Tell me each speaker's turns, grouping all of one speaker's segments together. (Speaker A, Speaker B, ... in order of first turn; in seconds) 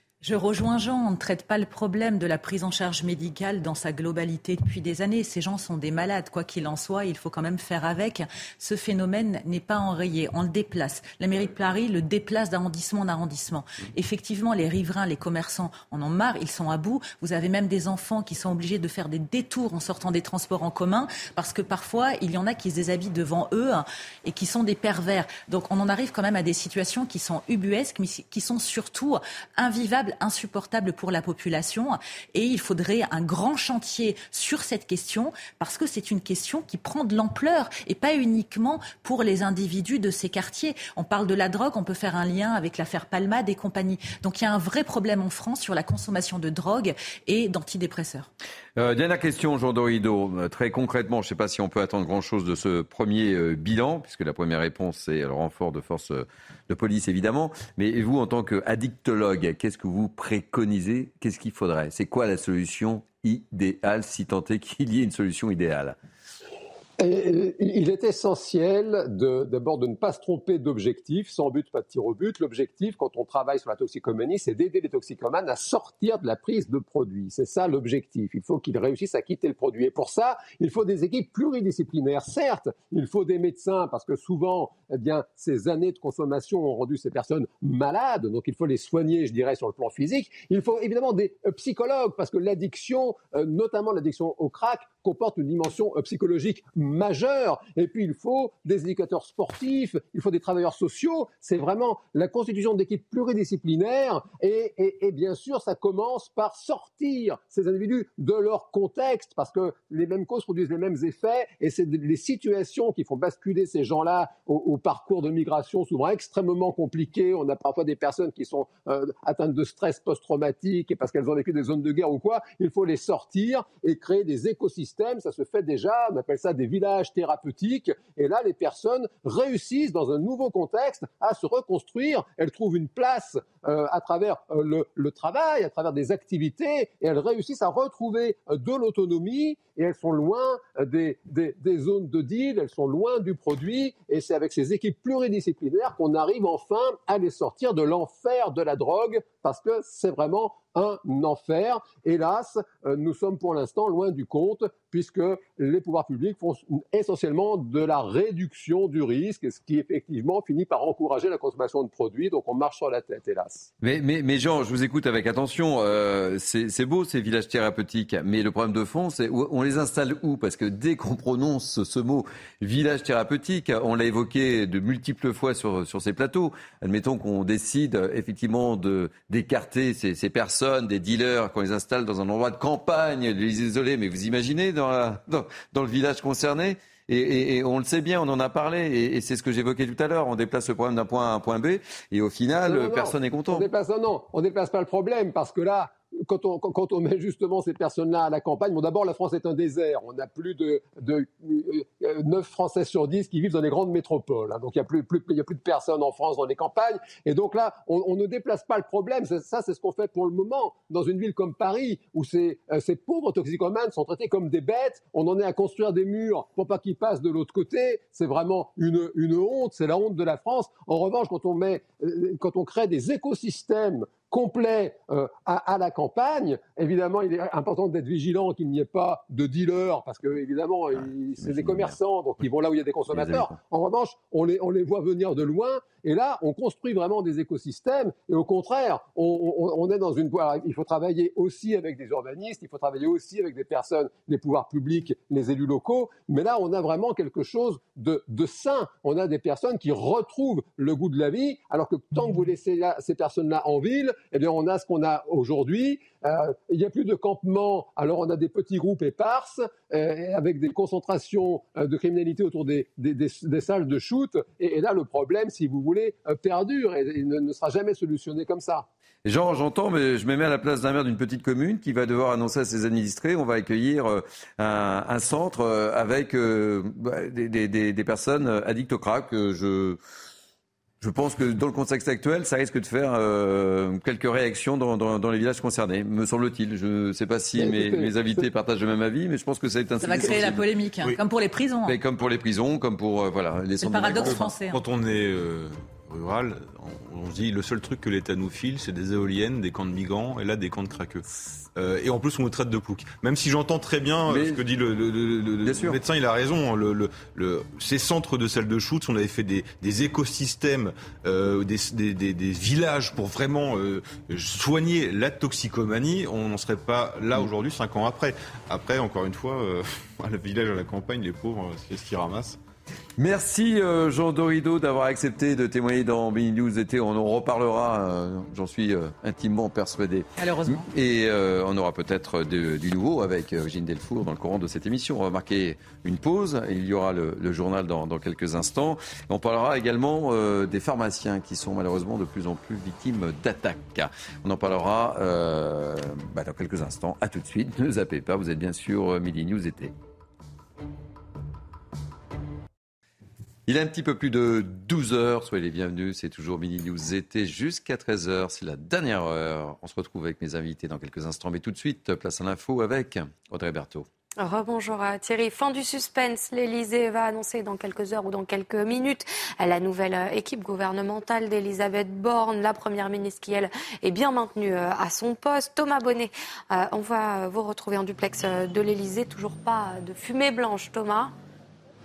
Speaker A: 0.2-48.3, 290.0-292.0, 293.8-294.8, 330.4-330.9
Speaker B: 48.8-66.0, 163.8-193.7, 230.9-232.0, 233.1-233.6, 269.2-280.0, 281.0-290.7, 291.9-294.5, 304.3-304.6, 305.6-306.0, 323.2-349.9, 353.7-364.1
Speaker C: 67.0-163.7, 192.6-268.9, 287.6-288.4
Speaker D: 294.2-322.6
Speaker E: 364.4-381.3